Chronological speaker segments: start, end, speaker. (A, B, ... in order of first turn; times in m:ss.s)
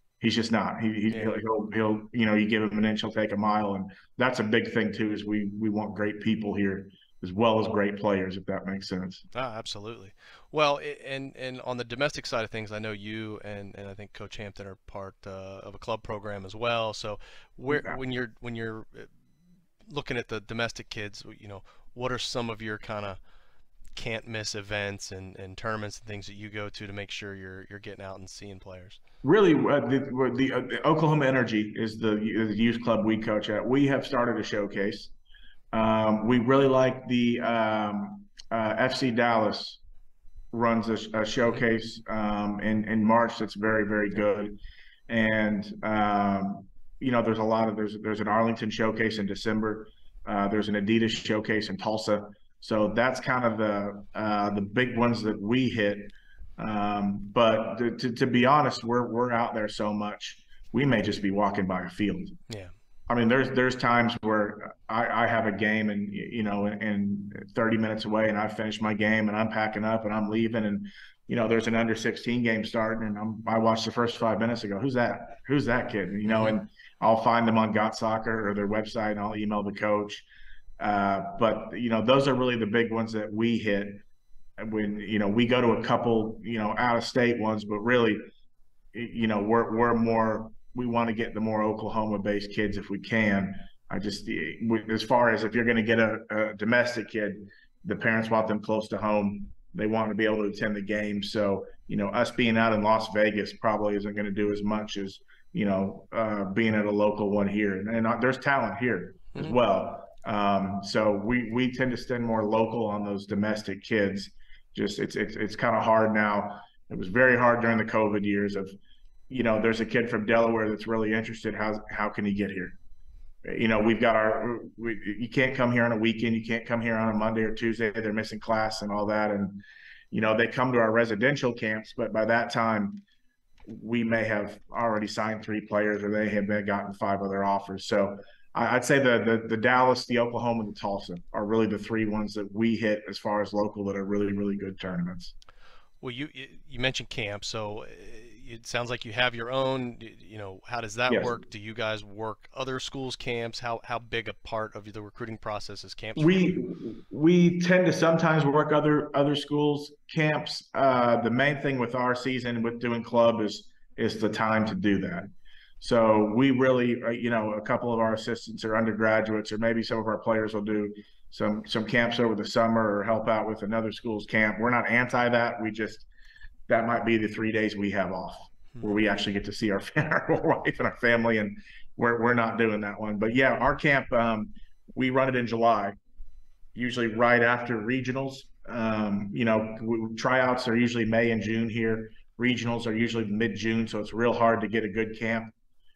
0:00.2-0:09.2 A
0:01.1-0:01.4 B
0:09.3-0:19.1 B
0:17.7-0:18.0 A
0:19.9-0:23.2 B
0:24.0-0:29.0 B
0:29.2-0:35.1 A
0:35.7-0:39.8 A
0:40.5-0:44.6 A
0:45.1-1:02.4 A
1:02.5-1:02.7 B
1:03.1-1:20.3 A
1:16.3-1:16.6 B
1:20.8-1:24.0 A
1:24.6-1:28.2 A
1:28.9-1:58.7 A
1:59.3-2:02.8 A
2:03.4-2:13.0 A
2:13.6-2:25.3 A
2:26.0-2:36.6 B
2:31.1-2:31.3 A
2:36.2-2:45.3 A
2:45.8-2:56.1 A
2:56.7-3:06.0 A
3:06.8-3:15.5 A